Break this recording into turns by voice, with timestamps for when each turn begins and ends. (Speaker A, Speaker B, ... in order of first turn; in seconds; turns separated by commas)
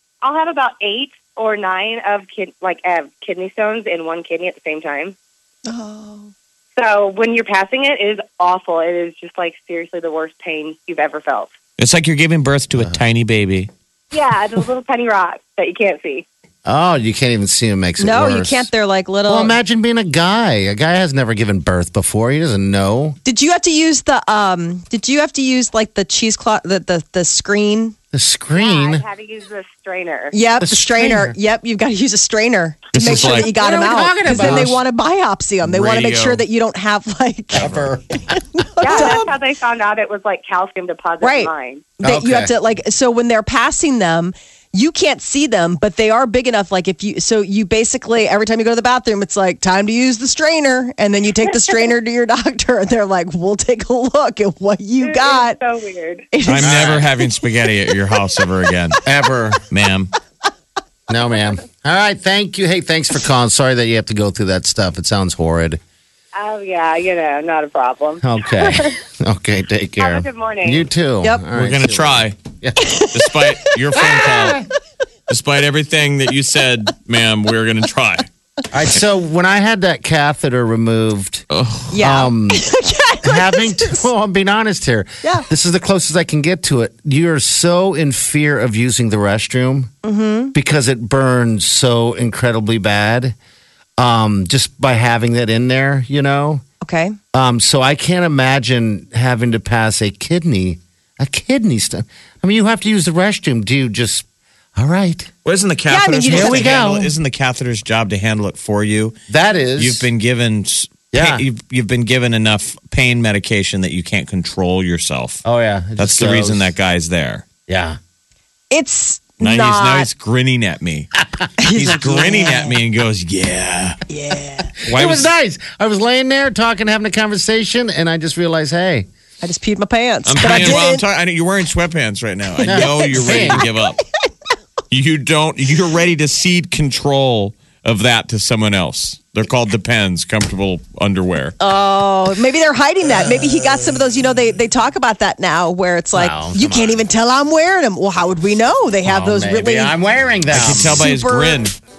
Speaker A: 0.2-5.1, Speaker B: 5.7-6.3, Speaker A: 6.8-11.5, Speaker C: 11.8-13.7, Speaker D: 12.7-13.0, Speaker A: 14.1-16.2, Speaker D: 16.6-18.7, Speaker B: 18.0-19.6, Speaker D: 19.3-23.2, Speaker B: 23.2-27.9, Speaker D: 28.1-29.0, Speaker A: 28.6-30.3, Speaker B: 30.3-37.7, Speaker D: 30.6-31.3, Speaker C: 32.9-33.5, Speaker D: 33.0-34.8, Speaker C: 34.3-34.7, Speaker C: 35.6-36.4, Speaker D: 37.5-38.4, Speaker C: 37.5-37.9, Speaker B: 38.3-39.3, Speaker A: 38.8-41.9, Speaker B: 41.2-55.6, Speaker D: 42.0-42.5, Speaker A: 55.0-56.2, Speaker B: 56.3-57.0, Speaker C: 56.4-59.0, Speaker D: 56.6-57.1, Speaker D: 59.0-59.6, Speaker C: 59.7-60.1, Speaker D: 61.1-65.8, Speaker A: 66.3-68.2, Speaker D: 68.2-73.0, Speaker A: 70.0-70.8, Speaker C: 71.5-72.3, Speaker B: 72.8-73.1, Speaker C: 73.1-74.6, Speaker D: 74.0-74.6, Speaker C: 75.3-78.3, Speaker D: 78.7-82.6, Speaker C: 81.5-81.9, Speaker B: 81.9-84.0, Speaker D: 83.2-89.9, Speaker B: 90.0-90.5, Speaker D: 90.5-93.3, Speaker D: 94.0-96.6, Speaker B: 96.8-97.2, Speaker D: 97.3-104.2, Speaker D: 104.8-105.3, Speaker C: 105.4-109.1, Speaker B: 105.9-106.8, Speaker D: 106.3-107.1, Speaker D: 109.3-110.1, Speaker C: 109.8-115.4, Speaker D: 111.1-111.4, Speaker D: 115.4-116.7, Speaker C: 116.0-117.4, Speaker D: 117.7-118.0, Speaker B: 118.7-120.1, Speaker C: 119.4-121.1, Speaker B: 121.6-122.8, Speaker C: 121.7-124.0, Speaker B: 124.1-124.7, Speaker D: 124.8-129.1, Speaker C: 124.8-125.3, Speaker B: 129.4-131.0, Speaker C: 130.2-134.0, Speaker D: 132.6-133.6, Speaker B: 132.7-133.7, Speaker C: 134.9-141.5, Speaker B: 141.6-149.9, Speaker D: 146.1-147.0, Speaker D: 149.0-151.0, Speaker C: 150.5-151.7, Speaker B: 150.7-151.6